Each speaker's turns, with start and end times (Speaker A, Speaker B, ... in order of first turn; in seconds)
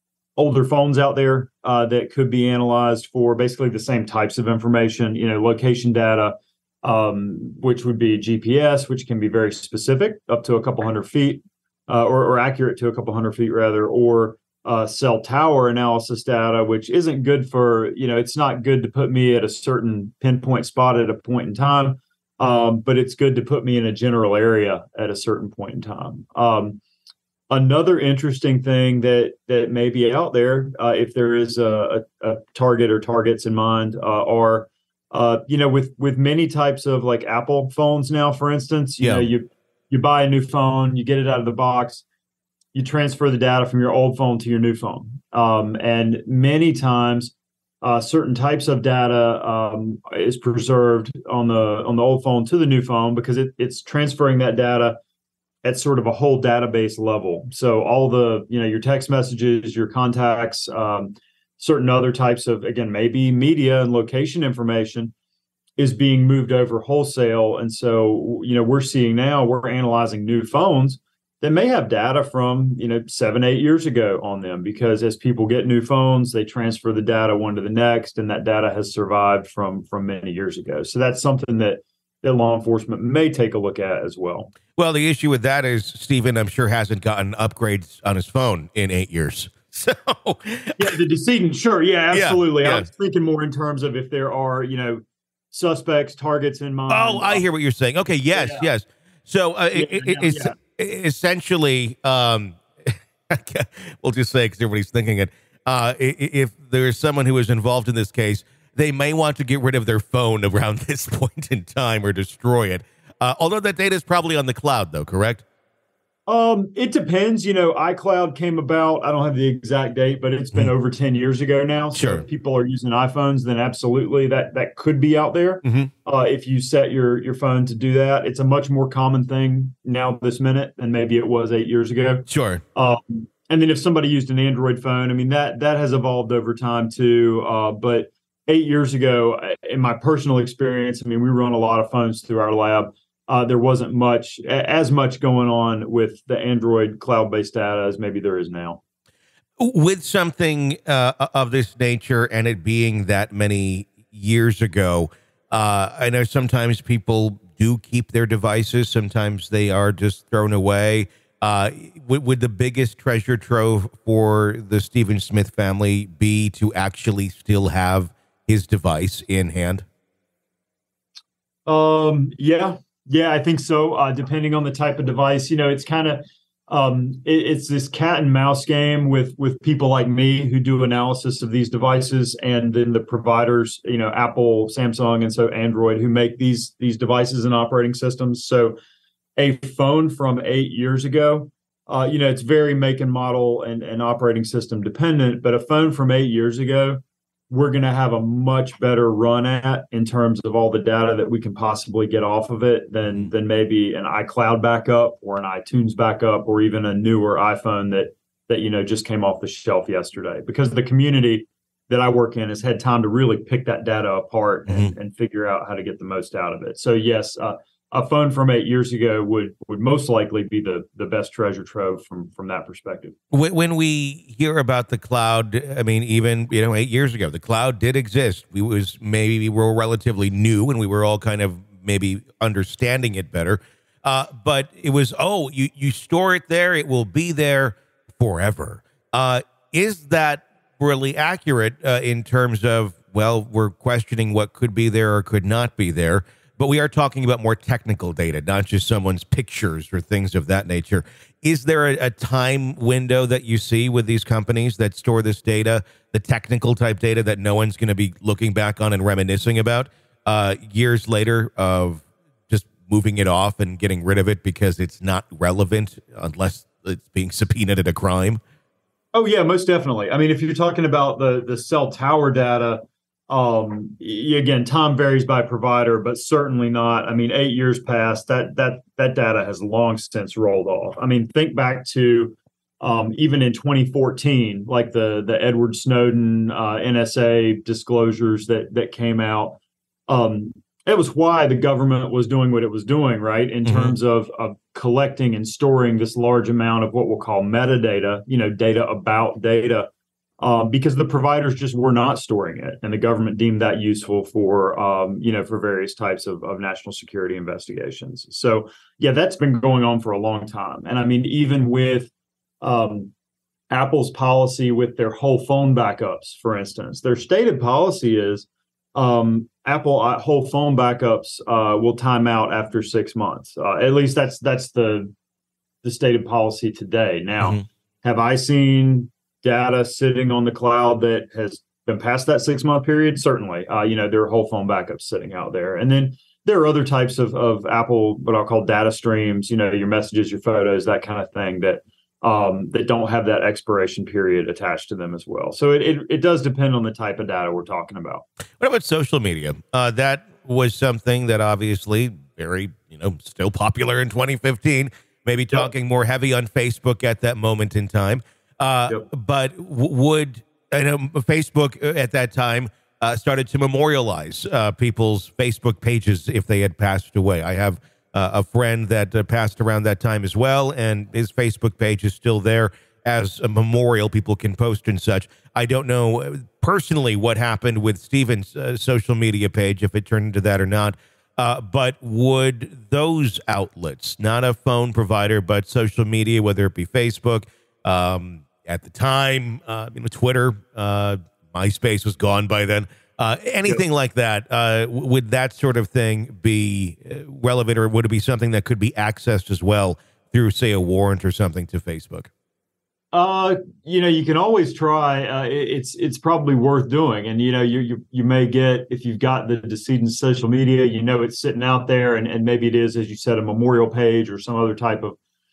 Speaker A: 0.3-26.8, 27.5-42.0, 42.7-55.0, 55.6-65.1, 65.8-84.5, 90.8-97.4, 98.3-98.7, 99.7-100.5, 116.3-148.8, 171.7-188.8, 189.4-223.2, 269.1-299.9, 300.4-313.1, 313.7-325.1, 325.8-348.2, 403.1-415.2
Speaker B: 39.0-39.3, 84.8-90.8, 92.1-92.9, 96.9-115.4, 121.9-122.2, 125.6-125.9, 132.3-132.6, 149.6-169.8, 223.3-268.4, 293.6-293.9, 348.6-402.3